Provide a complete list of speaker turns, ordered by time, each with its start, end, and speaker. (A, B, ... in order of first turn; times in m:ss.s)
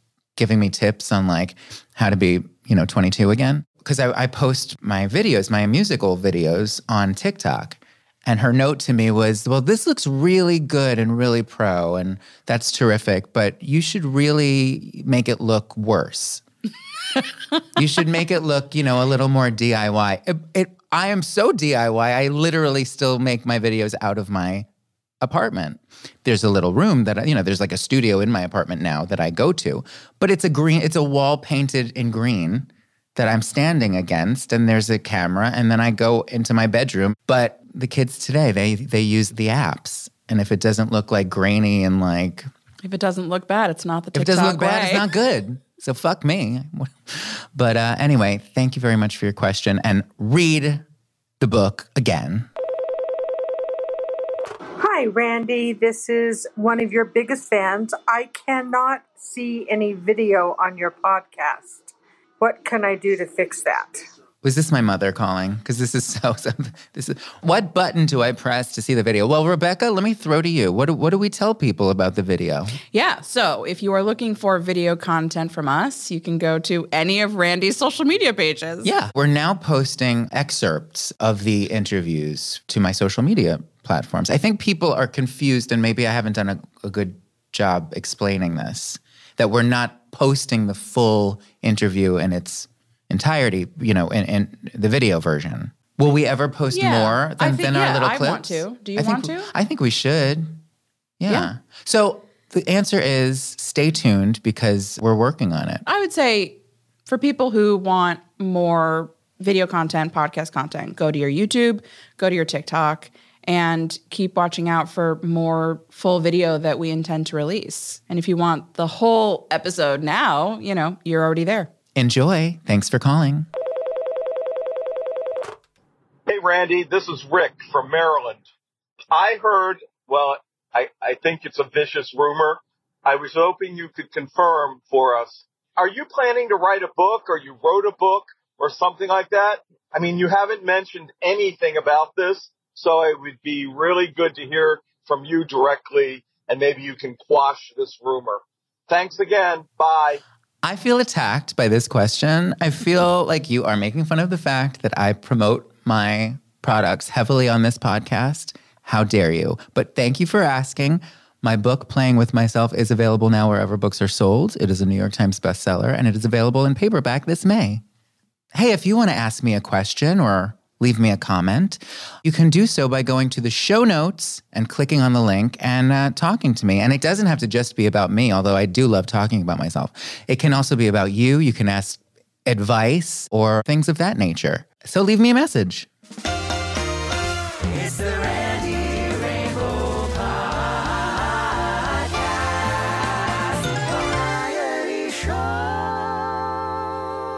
0:00.4-0:16.4 A
0:17.7-0:24.7 A
0:25.2-0:42.5 A
0:42.8-0:45.0 B
0:44.1-0:50.8 A
0:51.4-0:52.5 A
0:54.8-1:01.9 C
1:02.4-1:04.0 C
1:04.4-1:12.8 A
1:12.9-1:18.9 B
1:18.8-1:40.6 A
1:36.7-1:39.5 B
1:41.2-1:45.8 A
1:45.8-2:01.7 B
2:01.9-2:03.5 A
2:06.3-2:08.4 D
2:09.1-2:30.2 D
2:30.6-2:47.8 A
2:48.5-3:05.9 A
3:07.7-3:16.5 E